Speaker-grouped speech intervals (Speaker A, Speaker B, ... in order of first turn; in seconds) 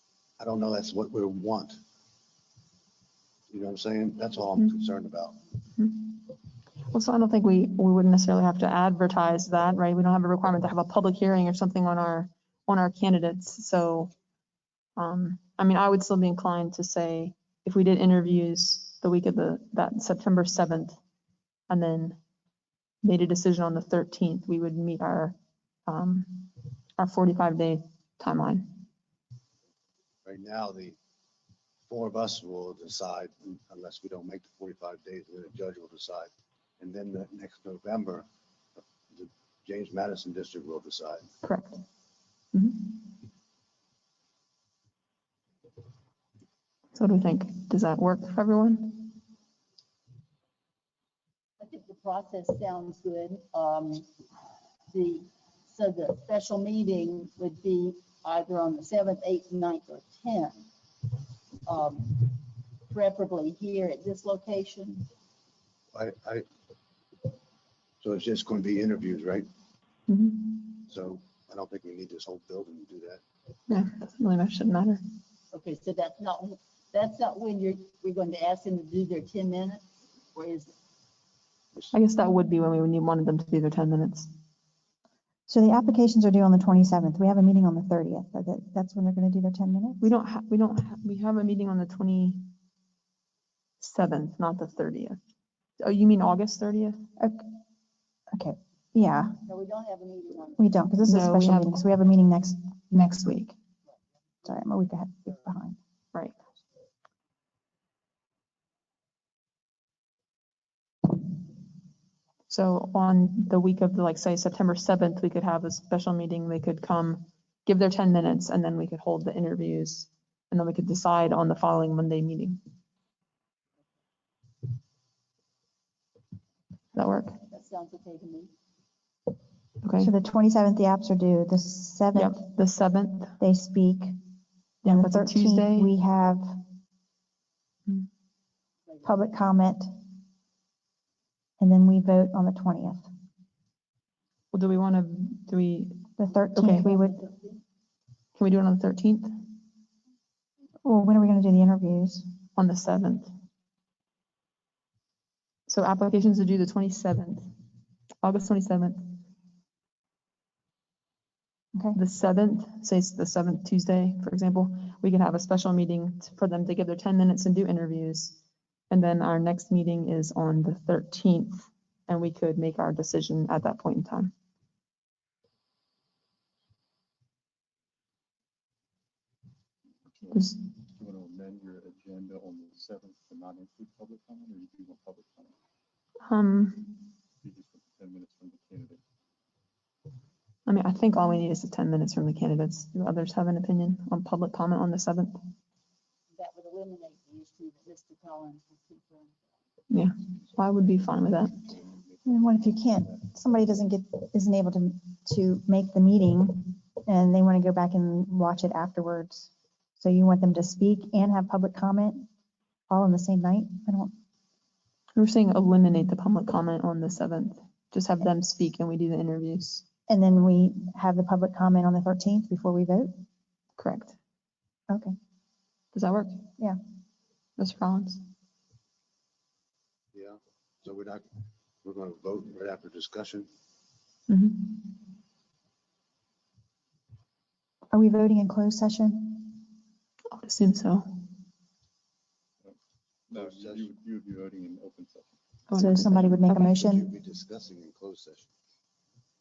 Speaker A: 0.4-1.8, 3.5-5.4, 30.2-31.0, 31.9-38.3, 39.1-41.3, 65.9-66.4, 68.0-69.5, 70.9-73.2, 230.1-231.2, 231.8-233.5, 243.3-243.9, 246.5-248.5
Speaker B: 5.8-6.3, 6.9-14.1, 15.0-21.0, 21.7-22.2, 23.0-25.3, 25.9-28.8, 41.4-41.8, 42.5-43.1, 46.9-49.2, 70.1-70.7, 73.7-75.0, 81.9-84.3, 90.0-92.5, 93.8-95.2, 95.8-97.0, 101.0-101.8, 112.5-122.6, 126.9-127.3, 129.8-130.1, 132.1-133.3, 134.8-135.9, 144.5-146.9, 148.4-149.4, 152.6-153.3, 155.7-157.5, 158.2-159.2, 161.9-168.4, 168.9-174.3, 186.2-187.0, 190.7-195.4, 199.9-201.7, 215.1-219.8, 223.8-224.2, 225.9-226.4, 227.6-228.2, 234.3-234.8, 240.3-241.1, 245.7-246.8
Speaker C: 51.6-54.1, 54.9-60.6, 61.6-65.1, 75.5-80.7, 99.5-100.7, 127.5-128.5, 138.9-139.2, 146.7-147.6, 196.3-199.5
Speaker D: 85.5-90.0, 97.2-97.5, 98.3-99.4, 100.6-103.5, 104.4-105.8, 130.0-132.4, 133.4-134.1, 134.8-136.6, 139.0-139.9, 141.6-143.0, 146.2-147.2, 150.8-152.2, 202.2-212.3, 212.9-214.1, 220.1-223.1, 237.9-239.6, 245.8-247.1
Speaker E: 180.1-185.6, 187.4-189.0, 200.3-203.3, 243.3-245.4